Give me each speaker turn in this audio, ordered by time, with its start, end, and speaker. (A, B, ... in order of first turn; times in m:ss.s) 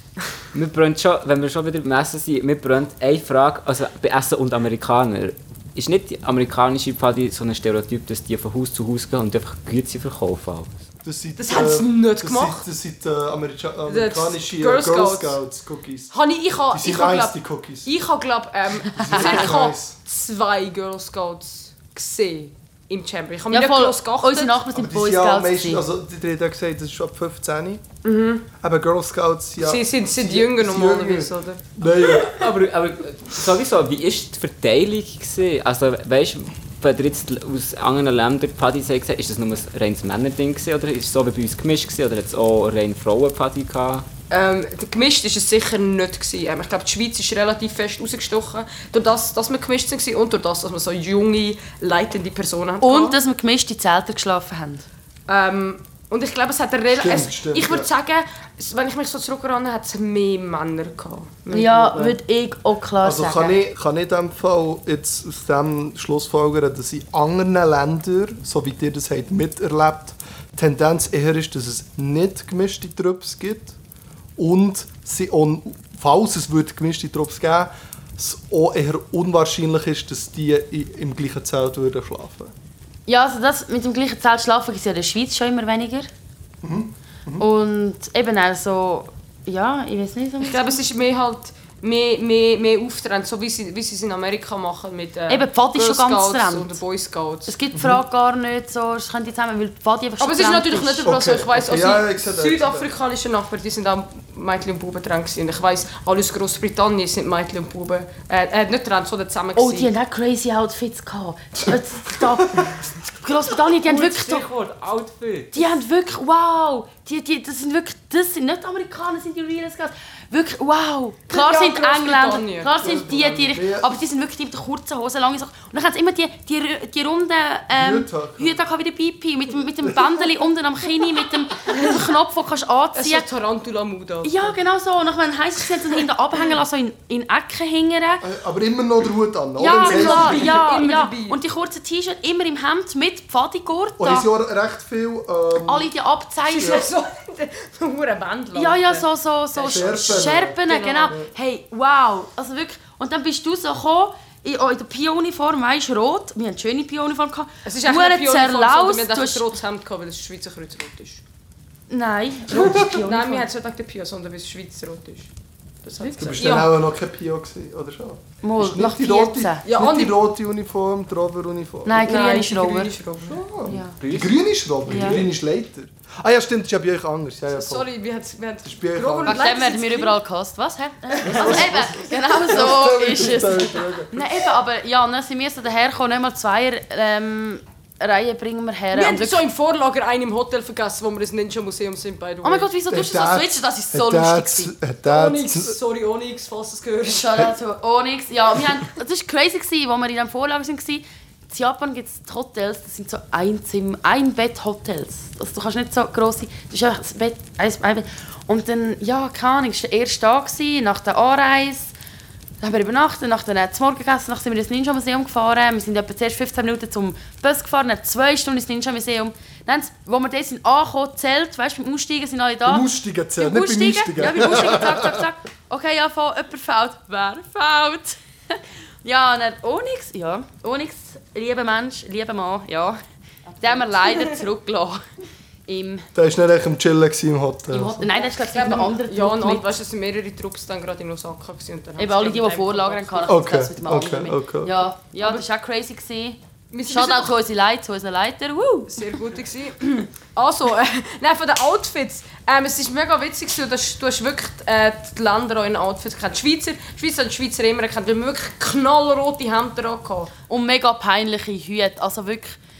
0:00.5-0:10.7 A
0:11.0-0:16.1 B
0:11.4-0:12.6 C
0:13.9-0:15.4 C
0:16.1-0:24.6 C
0:16.7-0:17.9 B
0:19.0-0:20.0 B
0:19.1-0:19.4 D
0:23.5-0:25.8 D
0:24.7-0:27.8 B
0:28.0-0:28.4 C
0:28.6-0:32.3 B
0:29.6-0:31.7 C
0:32.3-0:44.0 A
0:44.3-0:53.2 C
0:52.8-0:54.8 D
0:55.3-1:02.2 C
0:57.0-0:57.9 B
1:01.5-1:03.6 D
1:03.0-1:13.8 B
1:14.4-1:22.5 B
1:23.1-1:26.1 D
1:26.6-1:27.5 B
1:27.4-1:30.8 D
1:30.4-1:37.5 C
1:35.3-1:36.8 D
1:37.5-1:41.1 D
1:37.7-1:38.0 B
1:40.2-1:49.9 C
1:41.0-1:42.9 B
1:49.6-1:52.7 D
1:51.6-1:52.7 B
1:53.2-1:54.4 D
1:53.8-1:55.6 A
1:55.5-2:13.2 D
2:01.3-2:02.8 C
2:02.8-2:04.0 B
2:07.7-2:08.5 B
2:12.9-2:14.6 C
2:14.2-2:18.2 D
2:18.2-2:20.6 B
2:19.6-2:24.2 D
2:19.7-2:21.4 C
2:24.0-2:25.9 B
2:25.6-2:26.9 D
2:26.5-2:31.1 C
2:26.6-2:26.8 B
2:28.6-2:39.5 D
2:29.7-2:31.3 B
2:37.6-2:41.2 C
2:41.9-2:43.5 D
2:42.5-2:43.0 B
2:42.6-2:45.3 C
2:45.8-2:46.7 C
2:46.0-2:46.4 D
2:46.2-2:52.1 B
2:48.4-2:49.6 D
2:49.6-2:50.1 C
2:51.8-2:52.9 D
2:52.0-2:53.4 C
2:53.2-2:57.9 B
2:54.0-2:55.2 A
2:54.9-2:55.2 D
2:57.5-3:00.2 C
2:58.6-2:59.4 B
2:59.2-3:09.4 D
3:01.2-3:04.4 B
3:01.4-3:02.6 C
3:08.9-3:12.7 C
3:12.4-3:14.7 D
3:12.9-3:15.8 B
3:15.0-3:17.4 C
3:17.0-3:31.9 D
3:32.6-3:42.8 D
3:42.6-3:45.2 B
3:43.4-3:53.0 D
3:53.6-3:55.0 D
3:53.6-3:54.4 C
3:55.7-3:56.0 D
3:56.1-3:58.0 B
3:57.7-3:59.7 D
3:58.1-4:03.4 C
4:02.0-4:09.1 D
4:03.3-4:04.7 B
4:05.2-4:05.4 C
4:06.7-4:07.3 C
4:08.9-4:20.3 C
4:20.5-4:22.6 D